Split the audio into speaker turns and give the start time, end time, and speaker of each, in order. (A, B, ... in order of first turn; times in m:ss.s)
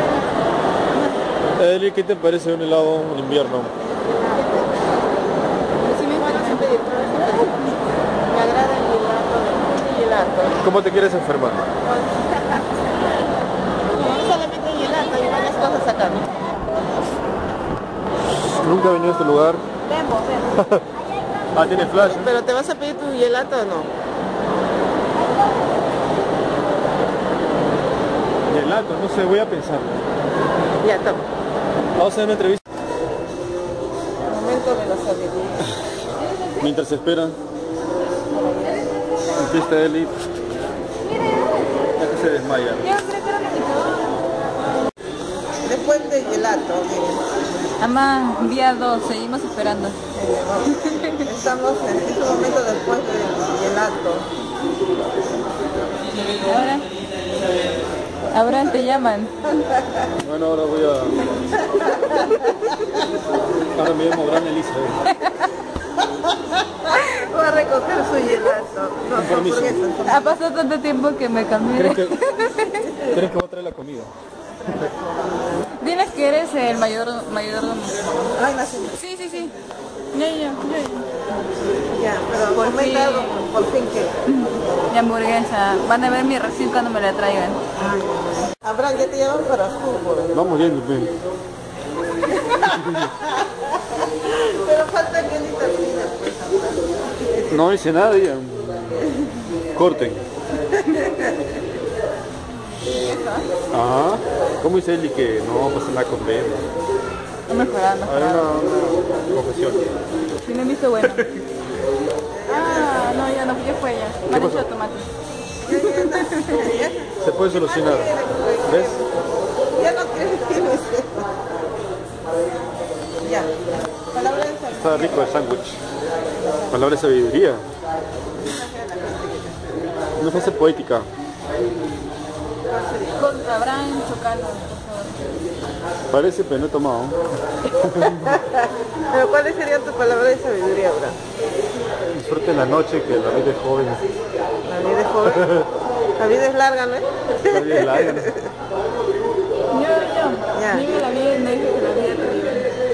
0:01.5-0:03.7 A
0:05.8-0:06.7 B
0:06.2-0:07.7 C
0:08.3-0:10.6 C
0:10.6-0:11.7 A
0:11.9-0:12.3 C
0:13.9-0:16.4 C
0:18.4-0:19.6 A
0:20.6-0:20.8 A
0:21.5-0:22.3 A
0:22.1-0:23.9 C
0:28.5-0:30.0 A
0:30.8-0:31.2 C
0:31.9-0:32.6 A
0:34.3-0:35.7 C
0:36.6-0:37.4 A
0:39.3-0:40.2 A
0:42.0-0:42.9 A
0:42.8-0:44.0 B
0:45.6-0:47.2 C
0:47.8-0:50.0 B
0:50.1-0:54.3 C
0:50.8-0:51.2 B
0:56.4-0:56.9 B
0:58.3-0:59.3 B
1:00.2-1:01.3 A
1:03.7-1:05.1 A
1:06.8-1:10.4 C
1:09.2-1:09.8 A
1:10.0-1:12.9 B
1:11.7-1:12.4 A
1:12.9-1:14.1 A
1:14.7-1:15.6 C
1:15.7-1:18.2 B
1:18.3-1:19.0 C
1:19.0-1:19.5 B
1:20.1-1:21.1 B
1:21.9-1:24.2 C
1:22.5-1:23.4 B
1:24.3-1:27.6 B
1:27.8-1:30.4 C
1:30.3-1:31.1 A
1:32.3-1:37.4 C
1:37.5-1:39.1 A
1:39.7-1:40.2 A
1:40.8-1:41.2 C
1:43.0-1:43.5 B
1:43.7-1:46.6 A
1:47.5-1:48.5 B
1:48.0-1:49.9 A
1:50.4-1:51.3 B
1:52.3-1:53.1 C
1:52.5-1:55.1 B
1:54.3-1:54.6 A
1:55.6-1:59.1 C
1:55.8-1:56.6 B
1:57.2-1:59.0 A
1:59.7-2:01.3 C
2:03.2-2:05.2 C
2:04.7-2:05.8 A
2:06.7-2:07.6 A
2:08.5-2:09.6 C
2:10.2-2:11.1 A
2:12.7-2:13.2 C
2:13.2-2:15.2 B
2:16.1-2:18.4 A
2:18.2-2:21.2 C
2:22.1-2:24.0 A
2:24.6-2:25.6 C
2:25.4-2:25.6 A
2:26.2-2:28.5 C
2:27.4-2:28.3 A
2:29.7-2:32.8 B
2:30.5-2:30.9 C